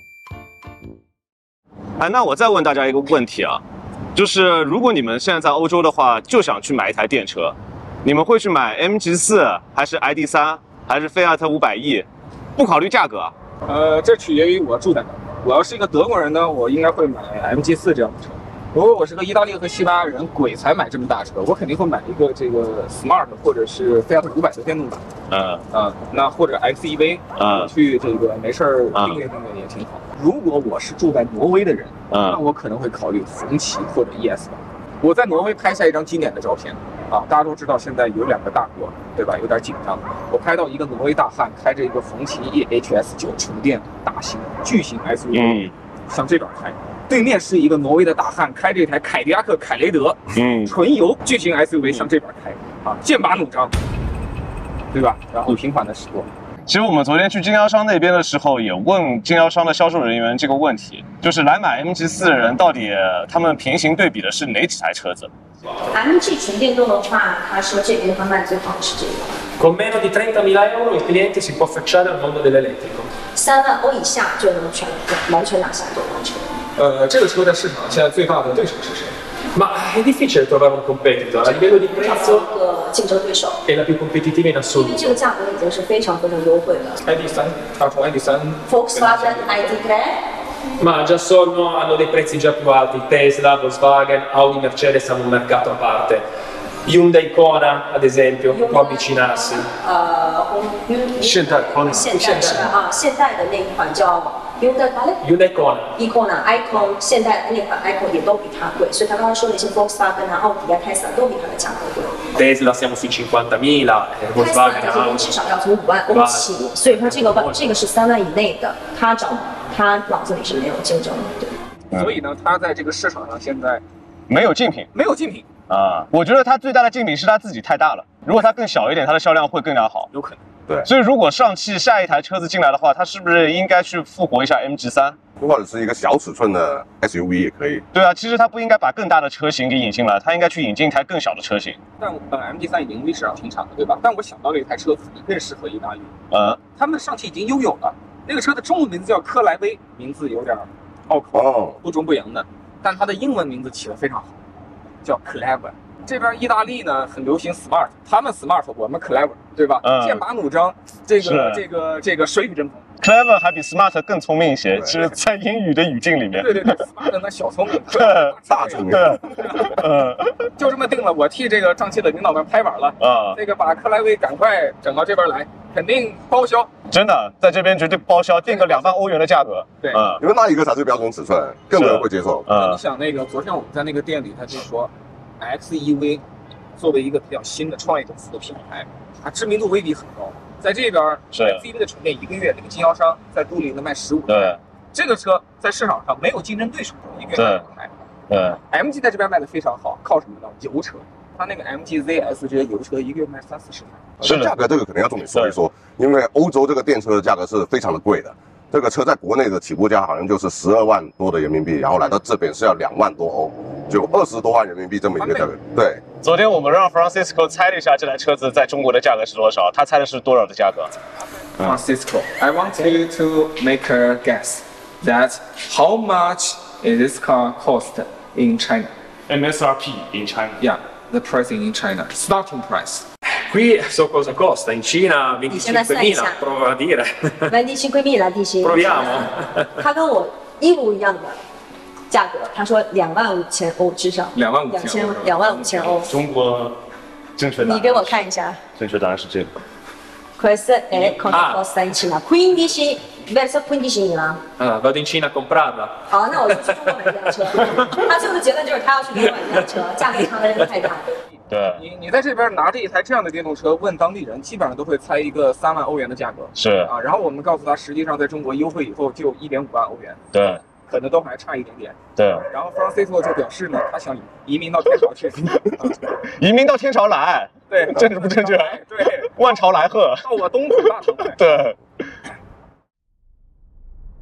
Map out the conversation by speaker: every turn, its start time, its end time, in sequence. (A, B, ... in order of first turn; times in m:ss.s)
0:02.0-0:03.6 A
0:04.1-0:13.3 A
0:13.6-0:25.0 B
0:25.3-0:25.6 A
0:25.7-0:53.8 B
0:27.4-0:27.7 A
0:28.9-0:29.2 A
0:32.1-0:32.4 A
0:45.3-0:45.7 A
0:50.3-0:50.7 A
0:54.9-0:56.3 B
0:56.6-1:05.3 A
1:05.9-1:09.4 C
1:09.6-1:13.1 D
1:13.3-1:16.5 C
1:16.8-1:19.1 B
1:19.5-1:22.4 D
1:21.4-1:23.6 C
1:23.6-1:25.1 D
1:24.7-1:27.0 C
1:27.0-1:29.8 B
1:28.7-1:30.2 C
1:30.8-1:36.2 D
1:36.8-1:39.6 D
1:38.5-1:45.3 C
1:41.2-1:42.7 D
1:45.2-1:45.9 D
1:45.9-1:52.2 C
1:52.3-1:55.3 D
1:54.3-2:01.5 C
1:56.1-1:57.4 D
2:01.9-2:02.2 A
2:01.9-2:03.8 B
2:04.3-2:04.9 A
2:04.9-2:05.5 B
2:05.7-2:10.1 A
2:10.1-2:10.4 B
2:10.8-2:15.2 A
2:15.4-2:17.8 E
2:17.9-2:21.8 A
2:22.0-2:26.1 B
2:26.3-2:26.6 A
2:26.8-2:34.4 B
2:31.3-2:31.8 E
2:35.0-2:42.8 B
2:39.8-2:40.2 A
2:41.2-2:41.6 A
2:43.0-2:46.8 A
2:46.3-2:49.8 B
2:47.9-2:50.5 A
2:48.5-2:49.6 E
2:50.6-2:56.7 B
2:53.0-2:53.4 A
2:56.9-3:00.2 A
2:58.4-2:59.0 B
3:00.2-3:02.4 E
3:01.7-3:02.8 A
3:02.5-3:06.2 B
3:06.8-3:17.9 B
3:11.3-3:11.6 A
3:14.3-3:14.6 A
3:17.3-3:17.6 A
3:18.3-3:18.6 A
3:18.5-3:24.0 B
3:24.2-3:36.0 E
3:24.2-3:24.5 A
3:35.2-3:35.5 B
3:36.2-3:40.9 A
3:41.6-3:48.9 B
3:49.3-3:50.6 A
3:50.6-3:53.0 B
3:53.5-3:57.5 D
3:55.5-3:56.4 C
3:57.5-4:01.4 C
3:58.6-3:59.6 D
4:02.1-4:06.1 C
4:04.3-4:06.1 B
4:06.0-4:06.8 A
4:07.4-4:09.5 A
4:07.6-4:08.6 C
4:10.4-4:14.4 C
4:14.6-4:15.9 D
4:16.1-4:21.1 C
4:21.5-4:21.8 A
4:21.7-4:30.2 B
4:26.5-4:26.9 A
4:30.3-4:30.6 A
4:30.8-4:35.9 B
4:32.2-4:32.4 A
4:36.2-4:38.8 A
4:37.7-4:39.6 B
4:39.3-4:40.2 A
4:40.2-4:41.4 B
4:41.3-4:41.8 A